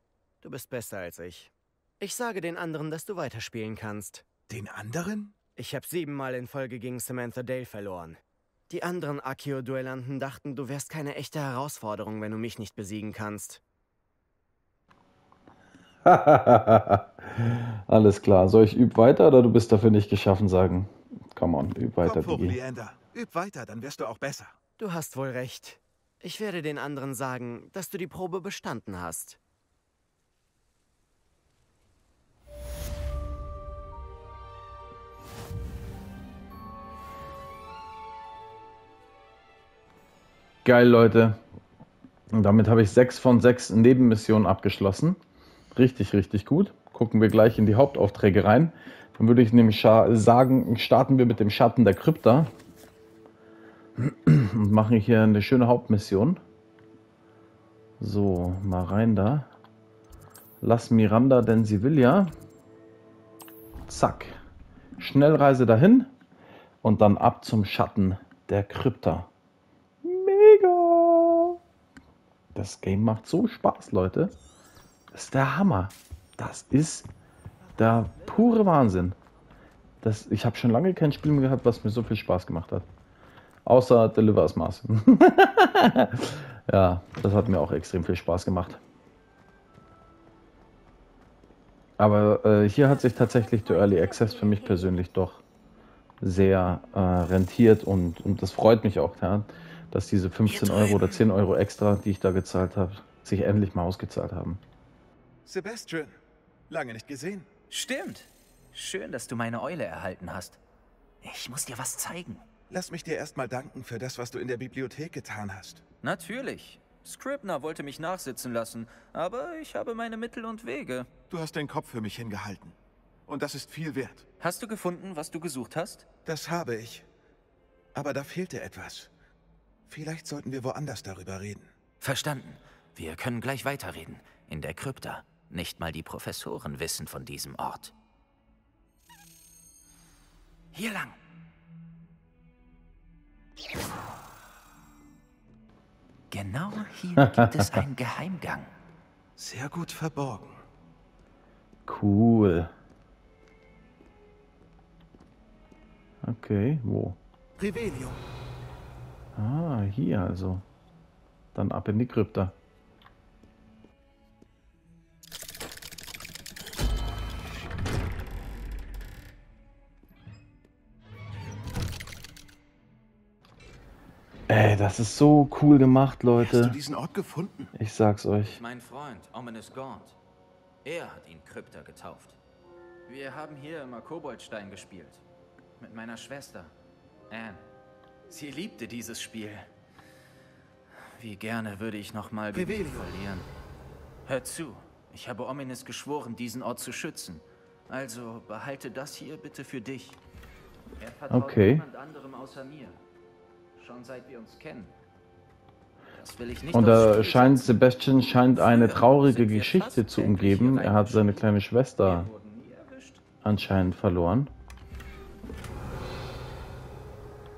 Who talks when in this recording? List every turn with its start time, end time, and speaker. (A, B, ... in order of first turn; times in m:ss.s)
0:00.4-0:04.2 A
0:04.5-0:05.3 B
0:05.6-0:13.6 A
0:16.0-0:22.6 C
0:22.0-0:24.6 B
0:24.8-0:29.4 A
0:40.6-0:41.4 C
0:42.3-0:45.2 C
0:45.7-0:52.5 C
0:54.0-0:56.4 C
0:58.0-0:59.5 C
1:00.6-1:02.3 C
1:03.9-1:04.4 C
1:05.0-1:06.1 C
1:06.8-1:09.3 C
1:10.0-1:11.6 C
1:12.5-1:14.3 C
1:15.1-1:17.1 C
1:17.8-1:19.2 C
1:20.0-1:22.9 C
1:23.6-1:28.8 C
1:32.0-1:35.4 C
1:36.2-1:44.6 C
1:40.4-1:41.2 D
1:45.4-1:46.2 B
1:46.7-1:47.5 B
1:47.7-1:50.6 D
1:51.2-1:52.4 D
1:52.7-1:55.8 B
1:56.0-2:01.1 D
2:01.3-2:02.8 B
2:03.3-2:04.2 B
2:04.4-2:06.1 D
2:06.2-2:07.1 B
2:07.9-2:09.1 B
2:09.9-2:11.7 B
2:12.0-2:17.9 D
2:20.7-2:21.2 D
2:26.3-2:28.7 D
2:27.2-2:27.7 C
2:29.4-2:30.6 B
2:31.8-2:32.7 C
2:36.2-2:37.2 C
2:37.6-2:38.2 B
2:39.3-2:40.6 C
2:41.5-2:42.5 C
2:54.5-2:56.8 C
2:56.4-2:57.7 B
2:57.7-2:58.6 C
2:58.4-3:00.2 D
3:00.8-3:02.4 D
3:03.1-3:05.2 D
3:05.8-3:06.7 D
3:07.3-3:07.6 D
3:08.3-3:09.7 D
3:11.1-3:13.5 D
3:12.5-3:13.1 B
3:14.2-3:20.2 D
3:21.0-3:23.0 D
3:21.3-3:21.8 C
3:23.8-3:24.9 D
3:26.2-3:27.8 D
3:26.7-3:32.3 C
3:28.6-3:31.5 D
3:32.0-3:33.2 D
3:33.4-3:34.5 C